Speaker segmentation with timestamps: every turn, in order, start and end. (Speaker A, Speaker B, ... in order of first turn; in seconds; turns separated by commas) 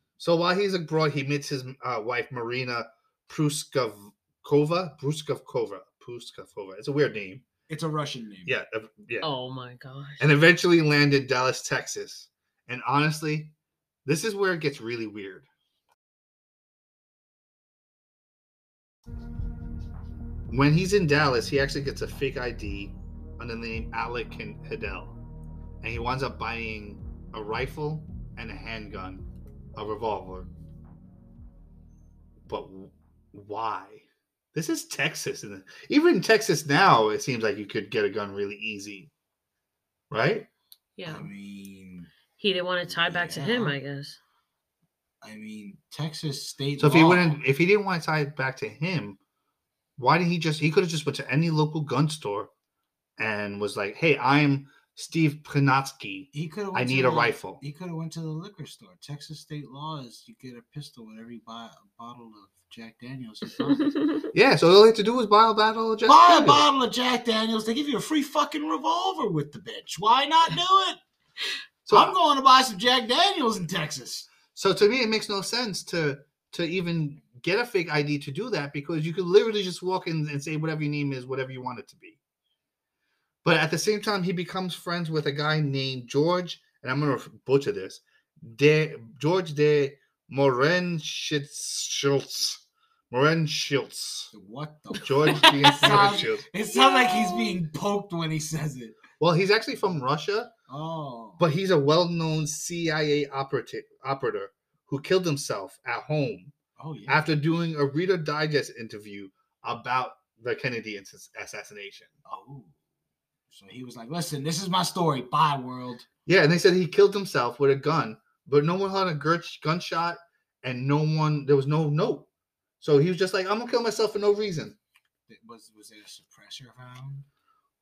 Speaker A: 0.2-7.5, Speaker B: 7.7-8.5, Speaker A: 8.5-9.3, Speaker C: 9.2-10.3, Speaker A: 10.2-13.5, Speaker A: 14.1-15.5, Speaker A: 20.5-25.2, Speaker A: 25.8-30.5, Speaker A: 32.5-39.1, Speaker A: 40.1-40.5, Speaker C: 41.0-41.3, Speaker B: 41.1-42.1, Speaker C: 42.4-44.2, Speaker B: 42.9-43.8, Speaker B: 45.2-47.4, Speaker A: 46.8-49.2, Speaker A: 50.0-52.5, Speaker A: 53.2-57.6, Speaker B: 56.3-63.9, Speaker C: 63.7-64.2, Speaker A: 64.3-66.7, Speaker B: 66.0-71.0, Speaker A: 71.9-72.1, Speaker B: 71.9-74.3, Speaker A: 74.5-82.2, Speaker A: 83.4-94.3, Speaker B: 94.3-99.0, Speaker A: 95.0-96.5, Speaker C: 95.3-96.2, Speaker C: 96.7-97.5, Speaker A: 99.2-100.5, Speaker B: 100.7-101.4, Speaker A: 101.4-106.5, Speaker B: 106.8-107.4, Speaker A: 107.1-112.1, Speaker B: 112.3-112.8, Speaker B: 113.5-116.1, Speaker A: 116.3-122.3, Speaker A: 122.8-124.8, Speaker B: 125.3-127.3